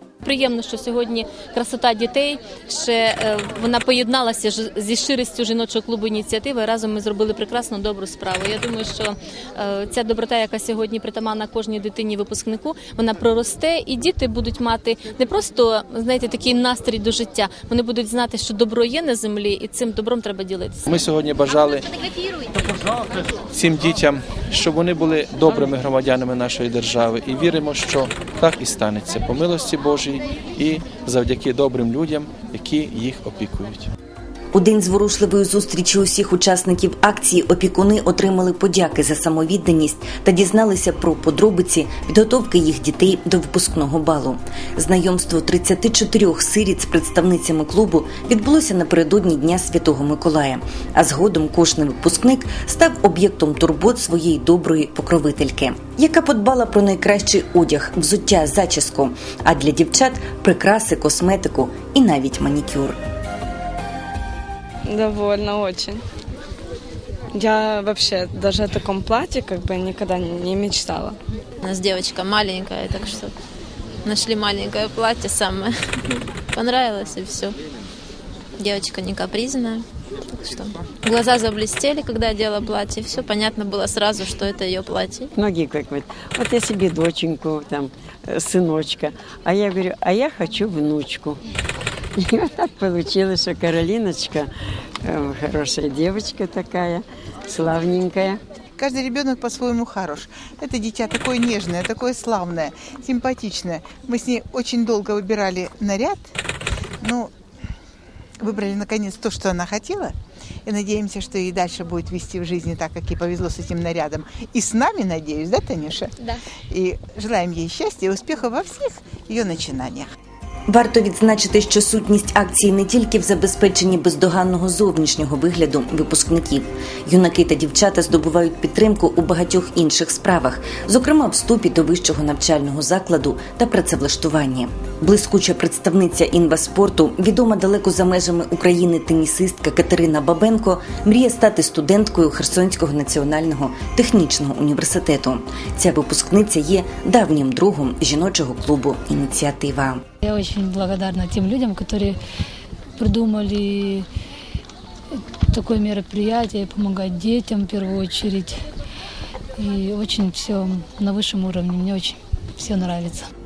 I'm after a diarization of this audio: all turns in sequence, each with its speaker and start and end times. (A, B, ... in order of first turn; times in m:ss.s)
0:00.2-0:20.9 A
0:20.9-0:21.9 B
0:23.5-0:33.9 B
0:34.5-1:03.0 C
1:04.9-1:06.0 D
1:07.3-1:11.2 D
1:11.6-1:13.3 E
1:14.0-1:17.6 E
1:18.6-1:25.3 E
1:25.3-1:31.4 F
1:32.2-1:34.5 F
1:35.0-1:38.4 F
1:38.8-1:46.3 G
1:47.0-1:47.3 G
1:48.4-1:50.1 G
1:50.6-1:56.1 G
1:56.7-2:00.1 G
2:00.7-2:30.0 C
2:30.2-2:32.2 H
2:33.0-2:34.1 H
2:35.5-2:38.6 H
2:39.6-2:43.2 H